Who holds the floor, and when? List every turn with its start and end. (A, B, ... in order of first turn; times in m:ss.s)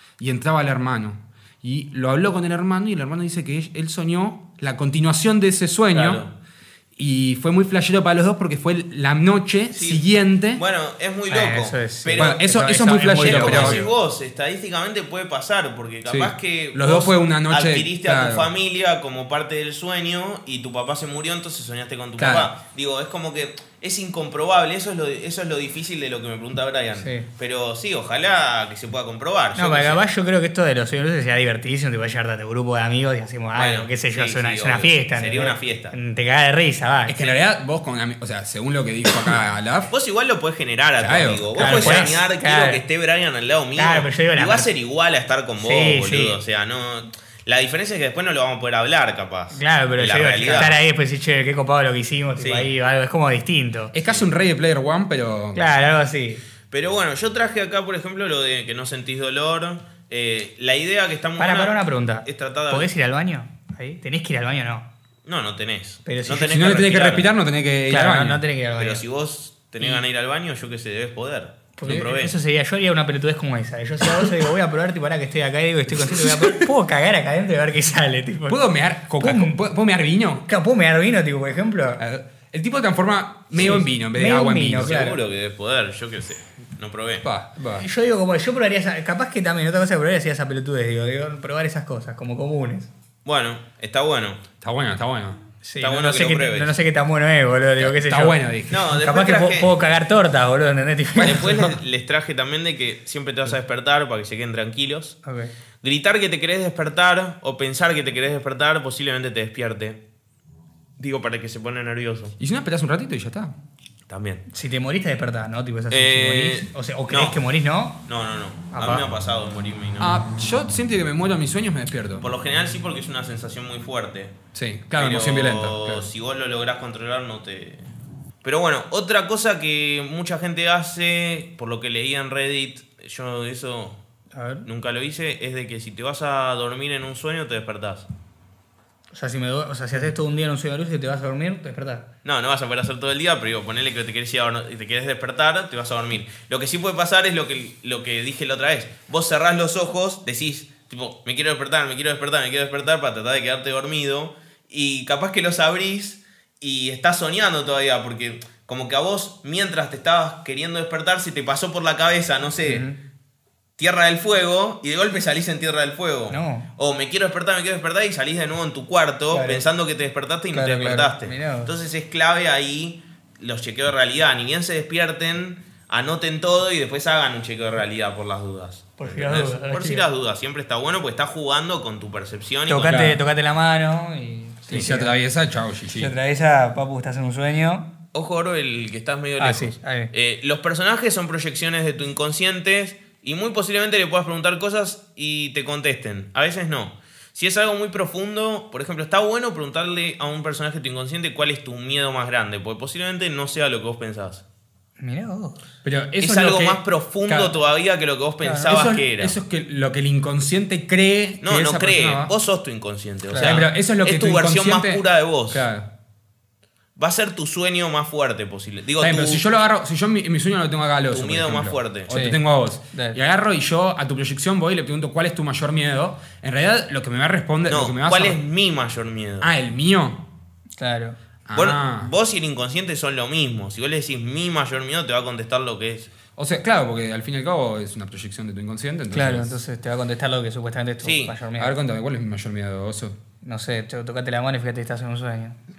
0:00.2-0:06.2 A
0:05.9-0:06.3 B
0:07.0-0:10.6 A
0:09.7-0:10.0 B
0:10.5-0:12.4 B
0:11.3-0:13.9 C
0:12.2-0:13.8 A
0:13.0-0:30.0 B
0:16.0-0:18.5 A
0:22.2-0:22.5 A
0:27.0-0:27.3 C
0:29.6-0:37.2 C
0:33.5-0:35.9 B
0:37.0-0:39.9 A
0:39.9-0:50.7 B
0:41.0-0:42.1 A
0:41.6-0:42.8 C
0:43.8-0:44.7 C
0:45.6-0:46.4 C
0:49.5-0:53.9 C
0:52.4-0:52.7 B
0:53.9-0:55.6 A
0:55.5-0:56.4 C
0:56.7-1:02.9 B
1:01.4-1:04.9 C
1:05.2-1:07.3 B
1:06.0-1:06.9 C
1:06.4-1:08.4 A
1:07.9-1:09.0 C
1:08.8-1:12.3 B
1:11.8-1:18.6 C
1:15.9-1:16.7 A
1:18.4-1:20.4 A
1:19.2-1:19.6 C
1:20.5-1:22.0 C
1:22.0-1:25.0 A
1:23.6-1:25.2 C
1:24.8-1:27.2 B
1:27.2-1:27.8 A
1:27.8-1:32.9 C
1:33.2-1:34.4 B
1:34.6-1:35.4 A
1:35.6-1:41.7 C
1:35.8-1:36.7 B
1:37.8-1:38.9 A
1:38.7-1:39.7 B
1:41.2-1:41.6 A
1:41.2-1:45.2 B
1:45.2-1:45.5 C
1:45.8-1:50.0 B
1:51.0-1:52.4 B
1:52.4-1:53.5 A
1:54.1-1:54.4 B
1:54.5-1:58.0 C
1:55.9-1:57.4 B
1:58.0-2:00.2 B
1:58.7-1:59.0 C
2:00.0-2:02.2 A
2:02.2-2:04.3 B
2:04.5-2:06.1 A
2:05.0-2:07.8 B
2:08.4-2:14.0 B
2:14.3-2:14.6 C
2:14.6-2:18.1 B
2:19.1-2:22.1 C
2:22.2-2:42.8 B
2:42.6-2:43.0 C
2:43.8-3:03.0 B
2:46.3-2:46.7 C
2:49.3-2:49.6 C
2:50.5-2:51.7 C
2:59.0-3:00.0 C
3:02.7-3:05.2 C
3:02.9-3:03.2 A
3:04.7-3:06.1 A
3:05.9-3:07.9 C
3:08.1-3:24.4 B
3:09.4-3:10.1 C
3:25.0-3:25.7 C
3:25.8-3:27.5 A
3:26.2-3:29.3 B
3:28.4-3:28.7 C
3:28.6-3:32.3 A
3:31.4-3:35.6 B
3:33.3-3:33.6 C
3:33.3-3:35.9 A
3:37.0-3:39.4 B
3:39.0-3:48.4 A
3:41.1-3:42.1 B
3:42.1-3:42.4 C
3:42.9-3:43.2 C
3:47.7-3:49.5 B
3:49.4-3:50.2 A
3:50.8-3:51.2 C
3:51.4-3:52.1 A
3:51.5-3:56.1 B
3:56.4-3:59.6 A
3:59.1-4:01.7 C
4:01.0-4:01.3 B
4:01.6-4:03.2 A
4:03.4-4:05.6 C